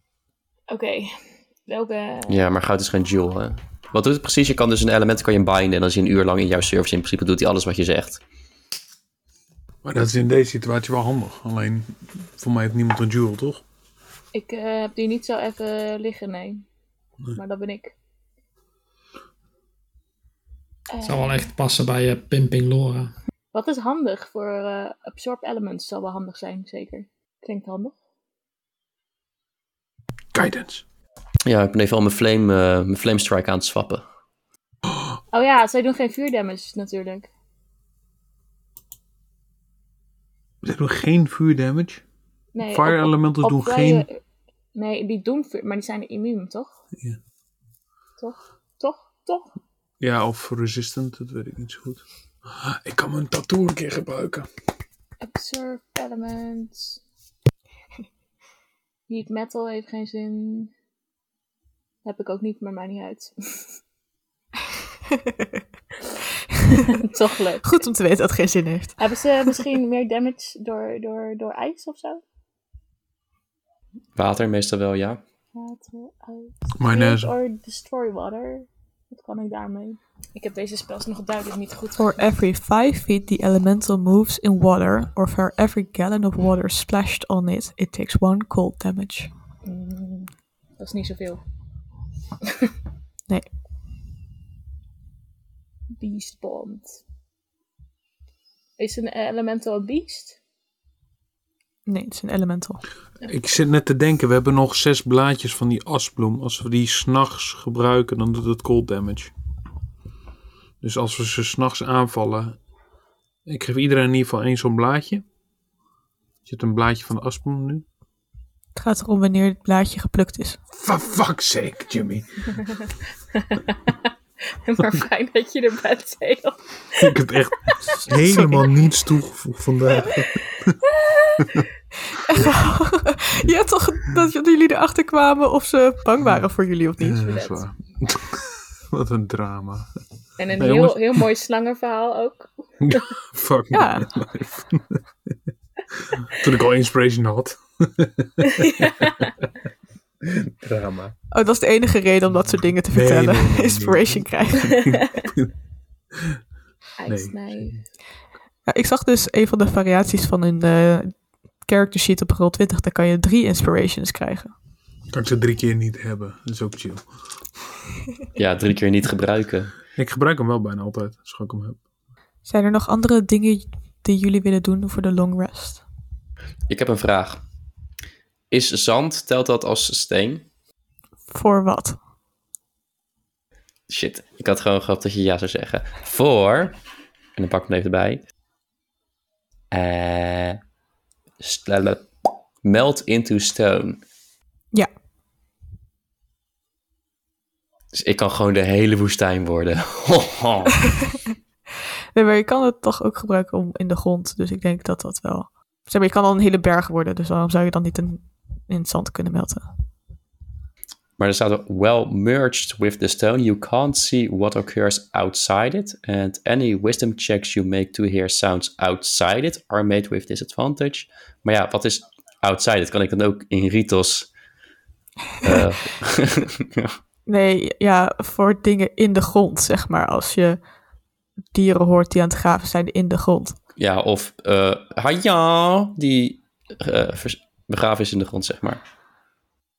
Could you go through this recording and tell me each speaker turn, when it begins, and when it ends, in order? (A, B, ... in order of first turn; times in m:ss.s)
0:00.7-0:02.4 A
0:02.3-0:08.2 B
0:09.8-0:13.6 C
0:14.3-0:16.6 A
0:17.3-0:17.9 A
0:20.9-0:21.4 A
0:21.0-0:23.1 D
0:23.5-0:27.9 A
0:30.3-0:30.8 C
0:31.4-0:34.0 B
0:35.3-0:37.3 A
0:40.6-0:42.0 C
0:42.5-0:44.2 A
0:42.6-0:44.0 C
0:44.7-0:46.7 A
0:48.2-0:49.5 A
0:50.0-0:54.5 C
0:55.2-0:57.0 A
0:59.1-1:00.7 A
1:02.0-1:03.8 A
1:06.9-1:07.8 A
1:07.6-1:09.0 E
1:09.0-1:12.2 A
1:14.2-1:15.2 B
1:15.5-1:22.1 A
1:16.8-1:17.3 C
1:22.0-1:29.3 E
1:29.6-1:31.4 A
1:35.9-1:37.0 A
1:38.8-1:40.4 A
1:41.8-1:42.8 E
1:43.3-1:49.3 C
1:50.8-1:52.6 C
1:53.4-1:55.2 C
1:56.4-1:57.8 C
1:58.7-2:00.6 E
2:00.7-2:02.7 C
2:03.3-2:07.1 A
2:07.0-2:10.8 C
2:08.1-2:08.7 E
2:10.0-2:11.5 A
2:11.4-2:11.6 C
2:12.1-2:17.2 E
2:17.0-2:19.9 C
2:17.2-2:17.6 A
2:20.4-2:23.1 A
2:20.6-2:21.2 C
2:22.8-2:25.0 C
2:23.7-2:24.1 E
2:26.0-2:28.7 C
2:28.4-2:29.3 A
2:30.2-2:31.1 C
2:31.3-2:34.8 E
2:32.9-2:35.5 C
2:37.0-2:37.8 A
2:37.1-2:37.8 C
2:38.7-2:44.5 E
2:45.1-2:47.1 C
2:48.4-2:49.7 B
2:49.9-2:51.8 C
2:52.4-2:55.8 E
2:56.7-2:57.4 B
2:58.5-3:00.4 B
3:01.3-3:02.0 E
3:03.9-3:06.8 B
3:07.4-3:08.2 B
3:09.7-3:10.6 B
3:11.4-3:12.1 B
3:12.6-3:14.0 B
3:17.9-3:20.9 B
3:22.1-3:29.6 E
3:31.2-3:44.3 B
3:45.4-3:47.0 B
3:47.3-3:50.6 E
3:51.5-3:53.6 E
3:53.8-3:58.8 B